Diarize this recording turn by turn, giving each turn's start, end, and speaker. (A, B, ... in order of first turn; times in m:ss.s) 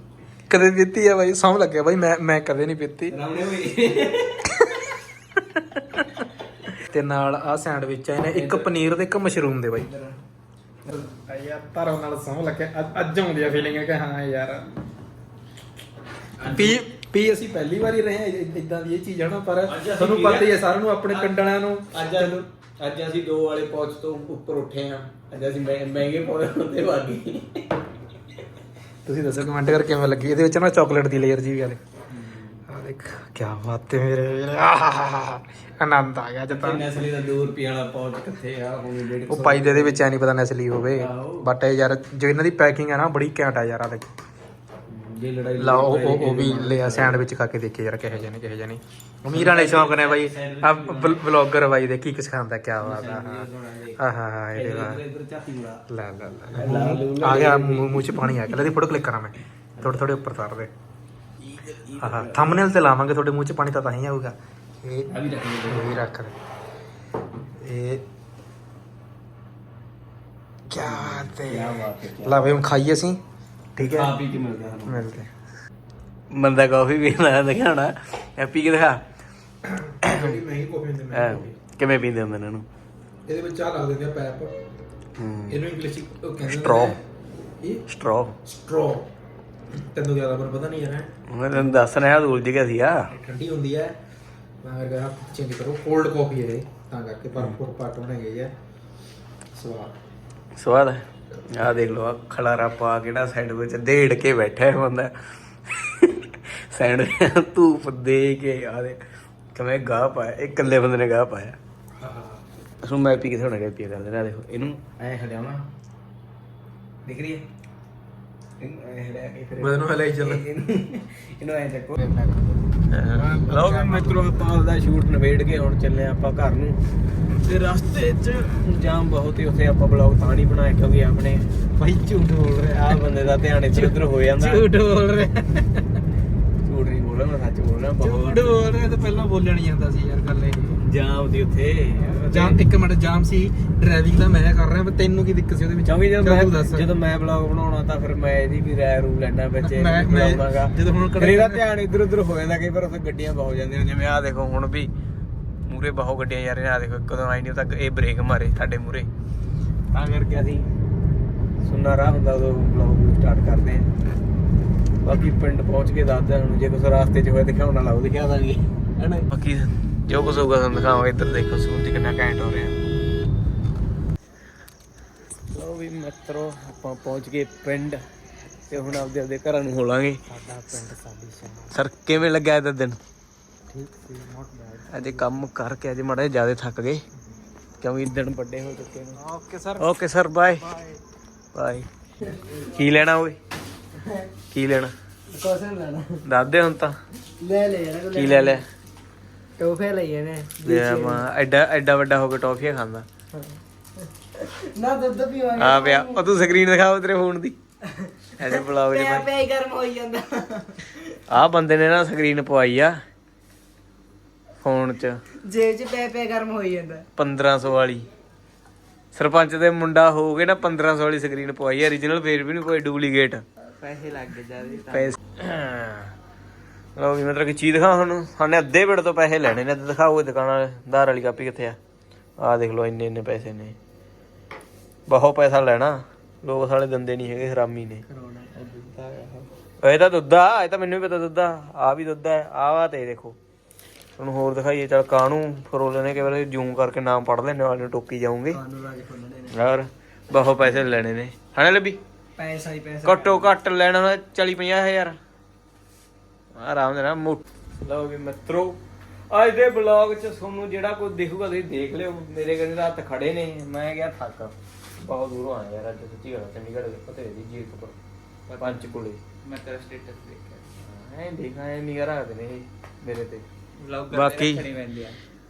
0:00.5-0:03.2 A
0:03.1-0:04.7 B
0:05.5-0:06.0 A
0:06.7-0:09.9 A
0:08.3-0:08.9 B
0:09.7-0:10.2 B
0:10.9-0:14.7 A
0:16.4-0:16.8 B
0:16.4-0:22.4 A
0:19.6-0:20.6 B
0:21.1-0:27.8 B
0:29.0-0:31.8 A
0:32.1-0:32.6 B
0:32.7-0:36.8 A
0:36.5-0:40.0 B
0:39.3-0:44.1 A
0:40.9-0:41.5 B
0:44.9-0:47.2 B
0:45.6-0:53.4 A
0:49.3-0:51.3 B
0:52.8-0:54.0 B
0:54.0-0:55.0 A
0:54.5-0:55.8 B
0:55.9-1:00.7 A
0:56.5-0:58.5 B
0:59.8-1:00.1 B
1:01.4-1:02.7 B
1:02.0-1:05.1 A
1:05.1-1:06.0 B
1:05.7-1:06.4 A
1:07.6-1:08.0 A
1:10.7-1:13.2 A
1:10.8-1:12.6 B
1:13.8-1:14.1 A
1:13.8-1:15.1 B
1:14.9-1:15.3 A
1:16.3-1:19.0 B
1:19.9-1:21.5 A
1:20.0-1:20.4 B
1:21.1-1:22.6 B
1:23.3-1:24.5 A
1:25.2-1:25.6 B
1:25.5-1:27.0 A
1:26.4-1:27.0 B
1:27.9-1:28.3 B
1:28.4-1:29.1 A
1:29.8-1:31.8 A
1:31.3-1:33.0 B
1:33.1-1:33.9 A
1:34.6-1:38.5 A
1:39.5-1:39.9 A
1:40.6-1:45.1 B
1:45.6-1:49.0 B
1:49.5-1:51.6 B
1:52.0-1:52.4 A
1:52.8-1:55.6 B
1:57.0-1:57.4 B
1:58.6-2:02.0 B
1:59.6-2:00.4 A
2:02.0-2:04.5 A
2:02.9-2:06.8 B
2:07.3-2:11.5 B
2:11.8-2:12.8 A
2:12.2-2:14.6 B
2:13.7-2:16.0 A
2:16.6-2:18.6 B
2:18.0-2:20.8 A
2:20.8-2:22.6 B
2:22.3-2:26.9 A
2:25.8-2:34.9 B
2:29.6-2:31.6 A
2:35.6-2:39.1 B
2:39.9-2:40.7 B
2:41.6-2:43.9 B
2:45.0-2:52.8 B
2:55.5-2:58.0 B
2:58.7-2:59.0 A
2:58.7-3:00.2 B
3:00.3-3:01.8 A
3:01.7-3:03.0 B
3:03.7-3:05.4 A
3:04.9-3:07.0 B
3:07.8-3:09.2 B
3:09.2-3:09.9 A
3:09.8-3:10.6 B
3:10.6-3:11.0 A
3:11.5-3:11.9 B
3:12.5-3:13.4 B
3:14.0-3:14.3 C
3:14.5-3:14.9 B
3:15.3-3:16.2 C
3:16.2-3:16.9 B
3:17.4-3:18.6 C
3:18.1-3:18.6 B
3:19.6-3:21.2 C
3:20.6-3:23.0 B
3:23.3-3:26.2 C
3:25.5-3:27.6 B
3:28.4-3:29.3 B
3:28.9-3:31.2 C
3:31.3-3:32.9 B
3:34.6-3:35.2 B
3:35.4-3:37.0 C
3:37.2-3:38.1 B
3:39.1-3:43.4 B
3:43.8-3:45.2 C
3:44.9-3:46.1 B
3:47.0-3:51.8 B
3:52.4-3:53.8 B
3:55.1-3:58.0 B
3:58.1-3:59.3 C
3:58.6-3:59.2 B
3:59.8-4:03.4 B
4:04.2-4:08.6 B
4:08.5-4:09.6 C
4:09.5-4:12.0 B
4:12.4-4:13.5 C
4:13.0-4:15.2 B
4:16.6-4:18.8 B
4:19.3-4:28.0 B
4:28.5-4:30.7 C
4:28.6-4:29.2 B
4:30.8-4:33.4 B
4:33.8-4:35.2 C
4:34.1-4:34.7 B